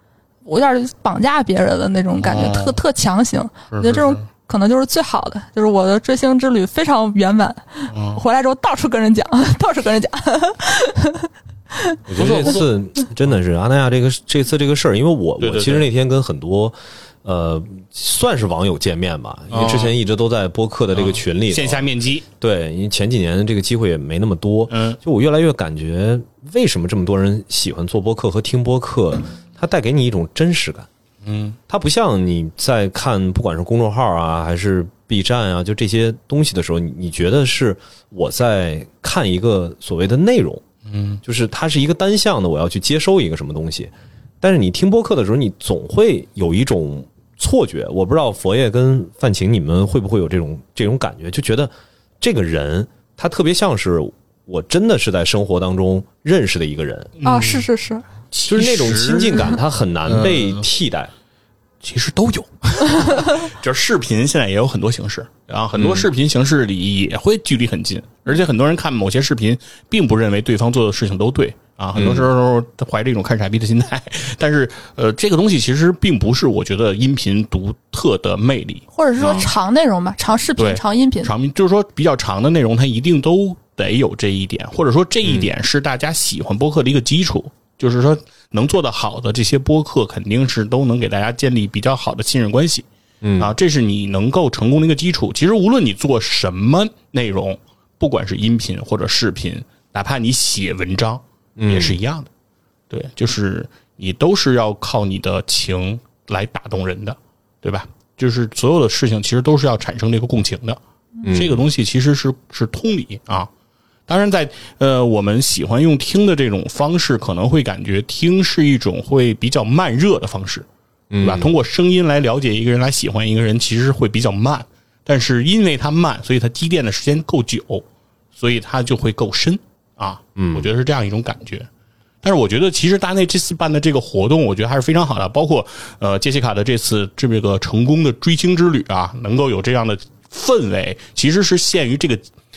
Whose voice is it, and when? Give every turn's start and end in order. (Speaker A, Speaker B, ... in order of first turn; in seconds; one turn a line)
Speaker A: 0.5-12.7
Speaker B: 2.2-2.8
Speaker B: 3.7-4.2
Speaker B: 7.9-8.2
Speaker C: 12.1-21.9
Speaker B: 12.2-12.6
Speaker B: 15.4-15.9
Speaker B: 19.5-19.9
Speaker B: 20.9-22.2
Speaker C: 22.4-30.9
Speaker B: 24.7-25.0
Speaker B: 31.2-31.6
Speaker C: 31.7-40.6
Speaker B: 40.9-41.2
Speaker C: 41.2-57.1
Speaker B: 57.2-57.7
Speaker A: 57.2-58.0
Speaker B: 58.3-60.6
Speaker C: 58.5-61.1
Speaker B: 61.8-79.5
Speaker C: 65.8-66.1
Speaker C: 72.0-72.3
Speaker A: 78.9-81.3
Speaker B: 80.6-92.8
Speaker C: 85.2-85.5
Speaker C: 93.2-93.5
Speaker B: 93.4-102.3
Speaker C: 101.6-102.0
Speaker B: 102.9-110.8
Speaker C: 111.2-111.6
Speaker B: 111.3-113.5
Speaker B: 114.1-120.7
Speaker C: 121.1-121.5
Speaker B: 121.2-127.8
Speaker B: 128.3-131.7
Speaker C: 130.4-130.7
Speaker B: 132.2-142.2